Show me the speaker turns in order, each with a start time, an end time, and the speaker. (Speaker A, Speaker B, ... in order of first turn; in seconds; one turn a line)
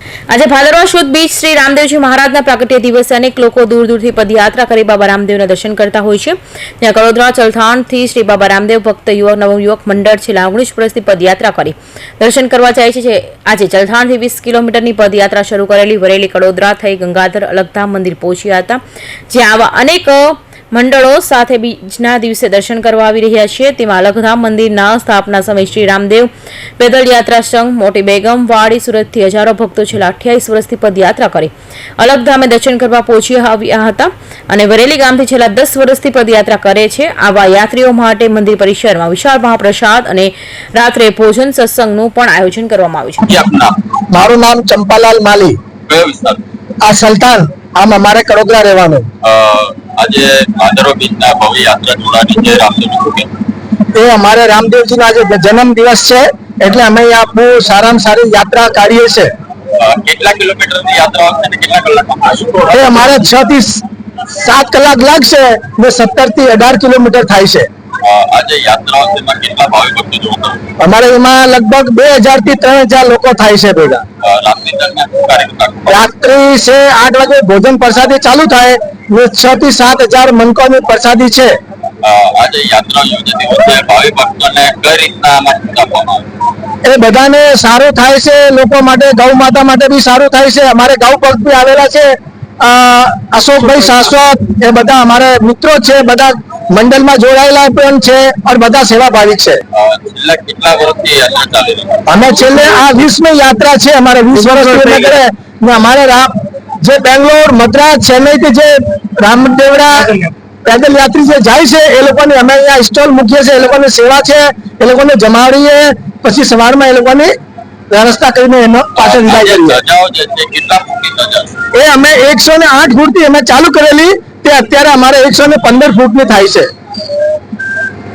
Speaker A: 0.3-43.2
Speaker B: 43.2-43.8
Speaker C: 44.1-45.5
Speaker B: 45.9-46.4
Speaker C: 46.8-49.1
Speaker B: 49.2-53.3
Speaker C: 53.9-59.3
Speaker B: 59.8-63.2
Speaker C: 62.7-67.7
Speaker B: 68.0-70.6
Speaker C: 70.8-74.0
Speaker B: 74.2-76.1
Speaker C: 75.9-81.5
Speaker B: 82.0-86.2
Speaker C: 86.8-99.6
Speaker B: 99.7-102.1
Speaker C: 102.1-106.3
Speaker C: 106.8-110.1
Speaker C: 110.6-117.3
Speaker C: 117.9-119.8
Speaker B: 119.0-121.5
Speaker C: 121.7-126.7